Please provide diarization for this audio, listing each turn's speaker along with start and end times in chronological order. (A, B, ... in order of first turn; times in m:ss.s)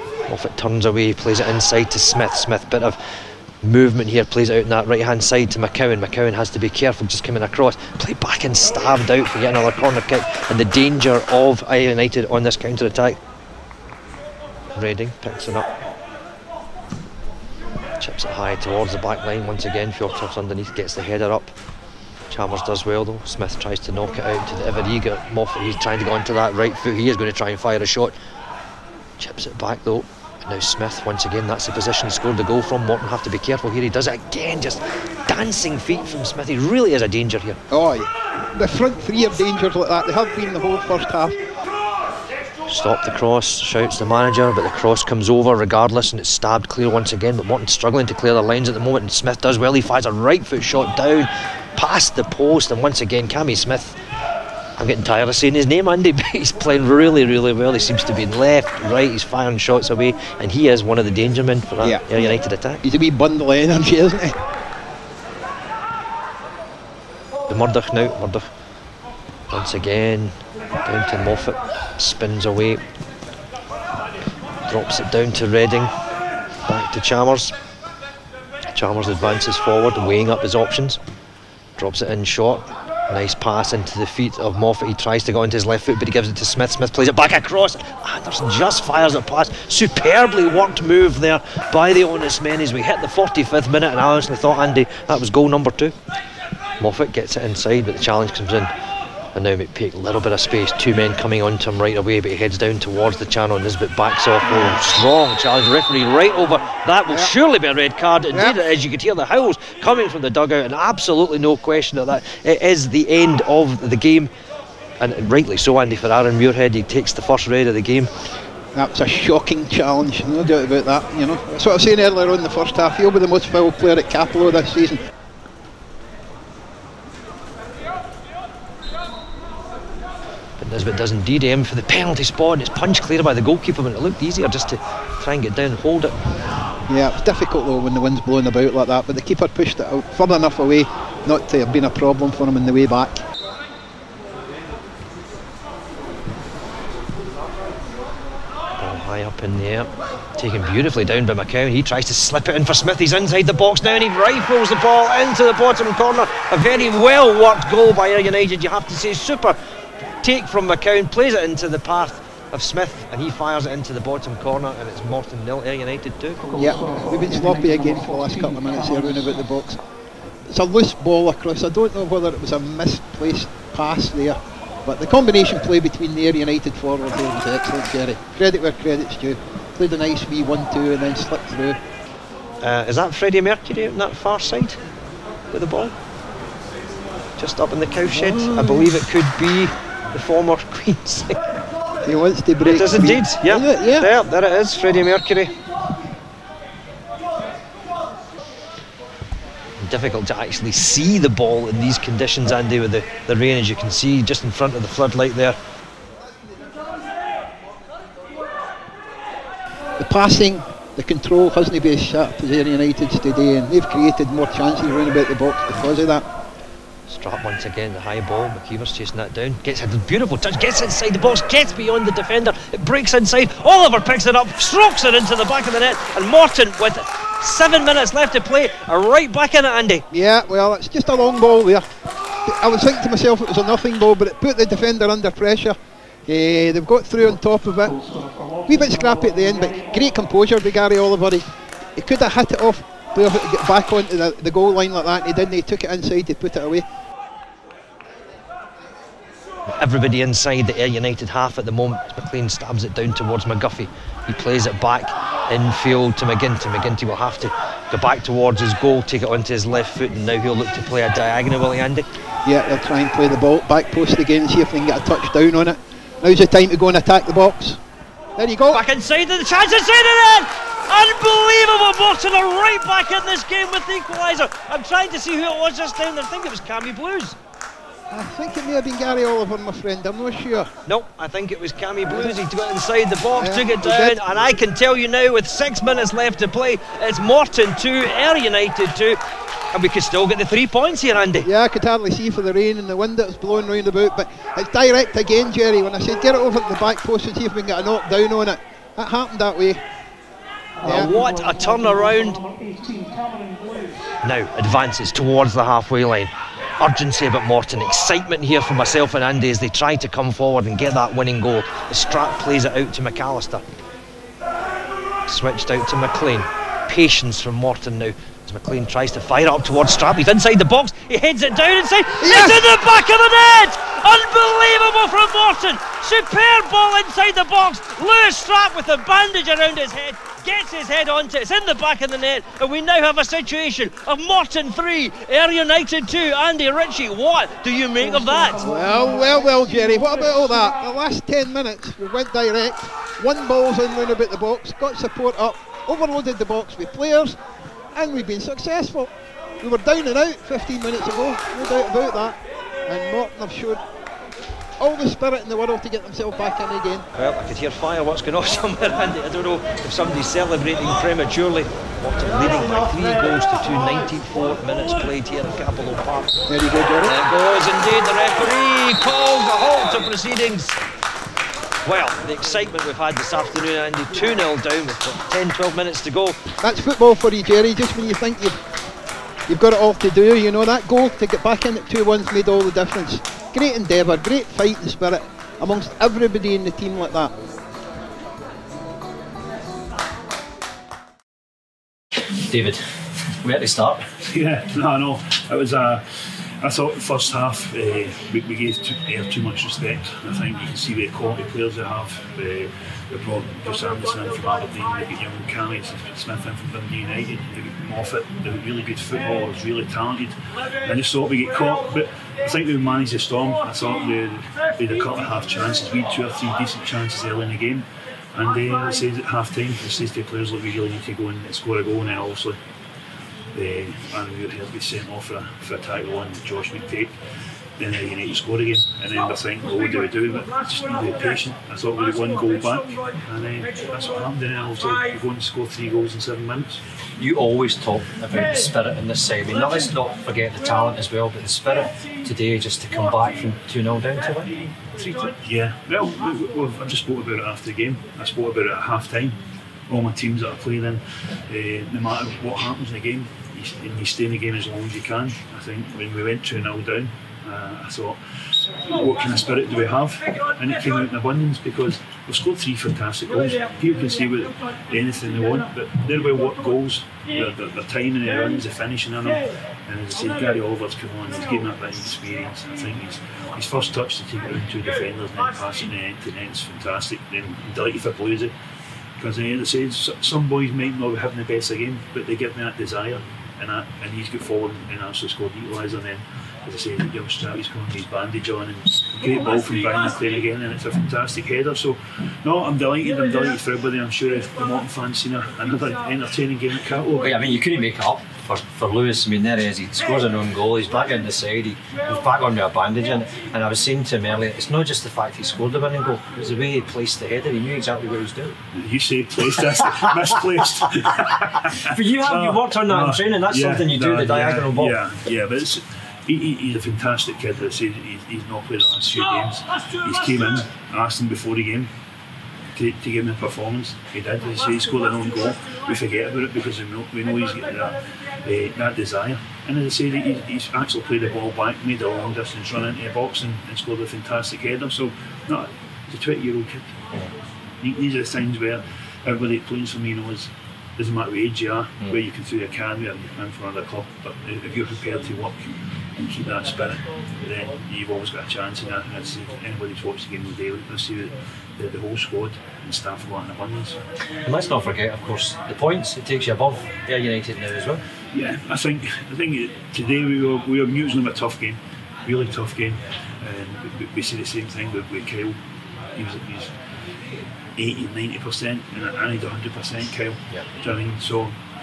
0:00.3-0:03.0 A
0:03.6-0:13.2 A
0:14.8-0:15.7 A
0:18.0-0:21.5 A
0:22.3-0:28.2 A
0:29.2-0:37.6 A
0:37.7-0:41.4 B
0:42.7-0:54.0 A
0:54.8-1:02.8 A
1:01.8-1:04.4 B
1:07.5-1:08.5 A
1:09.5-1:12.8 A
1:14.7-1:15.9 A
1:16.7-1:17.5 A
1:18.7-1:21.0 A
1:21.8-1:36.0 A
1:36.8-1:38.7 A
1:39.4-1:54.3 A
1:44.4-1:44.8 B
1:47.1-1:47.3 B
1:48.3-1:48.6 B
1:55.0-1:58.1 A
1:58.8-2:05.0 B
2:10.6-2:16.2 A
2:16.9-2:23.2 B
2:28.8-2:39.6 A
2:40.2-2:46.4 A
2:46.5-2:49.8 B
2:50.5-3:01.8 B
3:02.6-3:04.8 A
3:05.5-3:05.9 A
3:07.4-3:11.4 A
3:08.1-3:08.8 B
3:12.0-3:14.1 B
3:12.6-3:15.6 A
3:19.8-3:25.6 A
3:30.0-3:36.3 B
3:37.1-3:50.0 A
3:50.1-3:51.9 B
3:52.5-3:58.0 B
3:58.6-4:01.5 B
4:02.0-4:06.8 B
4:09.8-4:22.1 A
4:22.4-4:27.8 B
4:28.4-4:28.8 B
4:28.7-4:37.4 A
4:38.1-4:40.7 B
4:40.9-4:49.2 A
4:42.1-4:42.4 B
4:43.3-4:44.2 B
4:49.7-4:51.5 A
4:51.4-4:59.8 B
5:00.8-5:01.1 B
5:00.9-5:02.4 A
5:04.2-5:13.6 A
5:15.3-5:38.7 A
5:22.2-5:22.8 B
5:38.6-5:47.4 B
5:48.0-5:49.1 B
5:49.6-5:53.8 B
5:54.8-5:57.1 B
5:57.2-6:06.4 A
6:06.5-6:07.2 B
6:07.0-6:10.8 A
6:11.8-6:16.4 A
6:16.6-6:18.6 B
6:19.5-6:27.3 B
6:32.4-6:34.2 A
6:34.3-7:02.6 C
7:03.5-7:07.2 C
7:07.8-7:16.8 C
7:17.2-7:25.4 A
7:25.4-7:58.6 C
7:59.2-8:17.5 C
8:17.2-8:28.6 A
8:28.7-8:41.9 C
8:29.5-8:30.6 A
8:31.9-8:35.0 A
8:42.8-8:57.0 C
8:57.8-9:14.0 C
9:14.4-9:18.0 A
9:18.3-9:25.6 C
9:26.1-9:26.8 C
9:27.8-9:31.6 C